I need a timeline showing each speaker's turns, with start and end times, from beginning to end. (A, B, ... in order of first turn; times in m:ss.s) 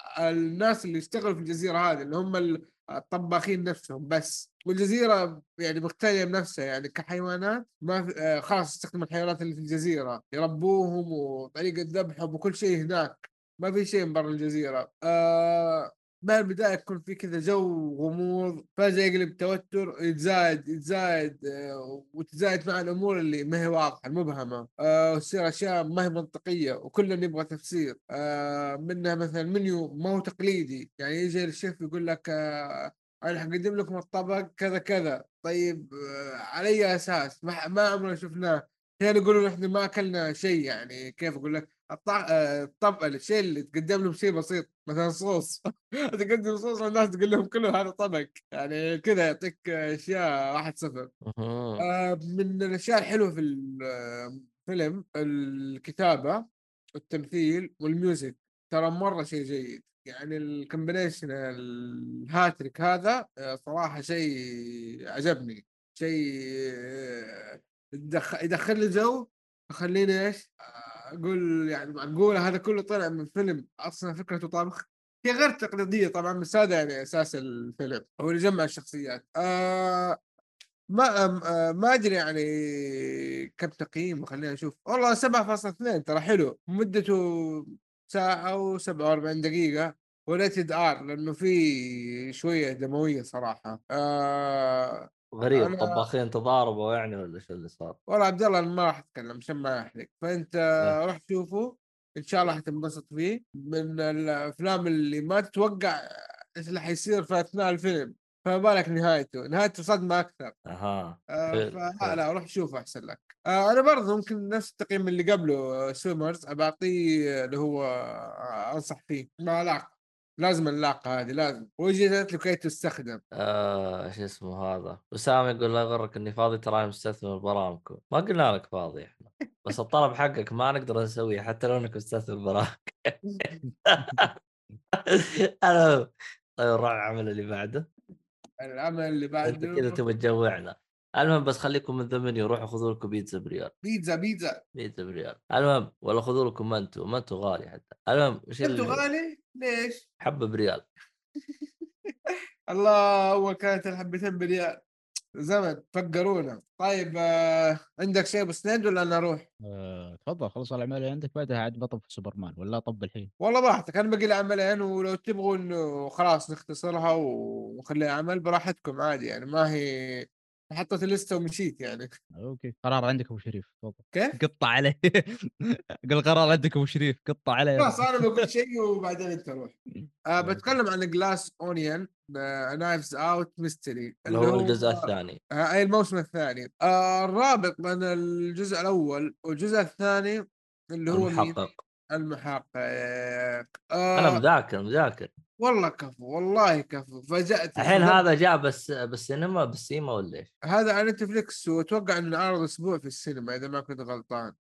0:00.2-0:32.3 A
0:33.2-0:51.1 A
0:51.2-0:51.9 B
0:51.8-0:56.4 A
0:57.0-1:20.2 A
1:20.9-1:36.1 A
1:35.3-1:38.0 B
1:38.1-1:46.0 A
1:46.6-1:50.5 A
1:50.7-1:52.2 B
1:51.4-2:03.2 A
2:03.4-2:13.2 B
2:13.6-2:14.2 C
2:13.8-2:14.3 B
2:15.1-2:17.9 B
2:18.6-2:20.0 A
2:19.4-2:23.7 B
2:23.8-2:24.6 A
2:24.8-2:29.0 B
2:28.6-2:30.0 A
2:30.2-2:30.8 B
2:32.7-2:34.8 A
2:35.4-2:39.5 A
2:39.7-2:43.3 C
2:43.4-2:50.2 A
2:50.7-2:52.1 A
2:52.4-2:58.4 C
2:57.8-2:59.8 A
3:00.3-3:10.4 A
3:00.4-3:00.7 C
3:04.3-3:05.4 B
3:11.0-3:11.6 A
3:11.1-3:11.8 B
3:12.1-3:14.4 A
3:14.2-3:15.3 B
3:15.6-3:18.2 A
3:17.8-3:20.5 B
3:20.7-3:24.5 A